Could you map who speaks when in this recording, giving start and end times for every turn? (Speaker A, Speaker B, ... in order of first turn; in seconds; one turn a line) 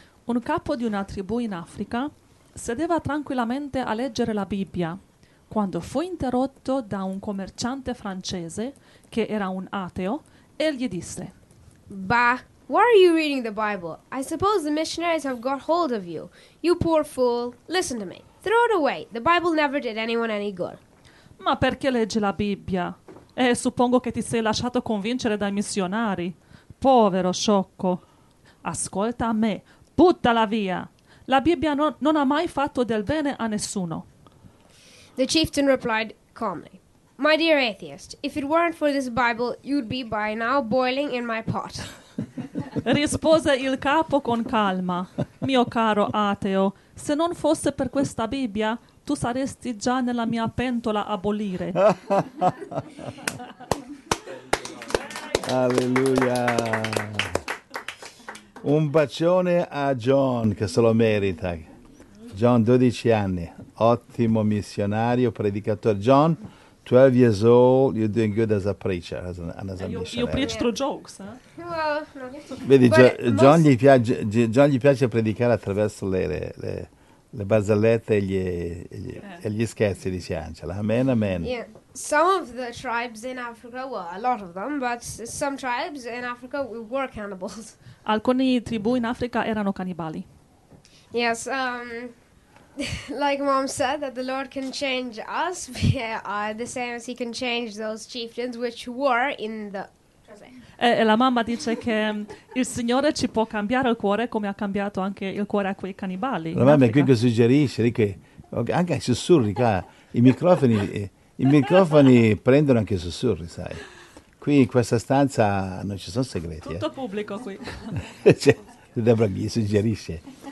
Speaker A: 0.3-5.0
Speaker A: 5.5-11.3
Speaker B: 11.9-20.8
Speaker A: 21.4-28.0
Speaker A: 28.6-34.0
Speaker B: 35.2-41.9
Speaker A: 42.8-51.8
Speaker C: 51.9-52.8
Speaker C: 55.3-57.4
Speaker C: 58.6-61.7
Speaker C: 62.3-70.5
Speaker A: 69.8-71.4
Speaker B: 70.3-70.7
Speaker B: 71.6-73.7
Speaker C: 72.6-81.5
Speaker B: 81.4-87.8
Speaker A: 88.0-90.2
Speaker B: 91.1-92.1
Speaker B: 92.8-100.5
Speaker A: 100.8-107.1
Speaker C: 106.5-113.8
Speaker C: 114.4-116.8
Speaker A: 116.6-118.0
Speaker C: 118.0-120.2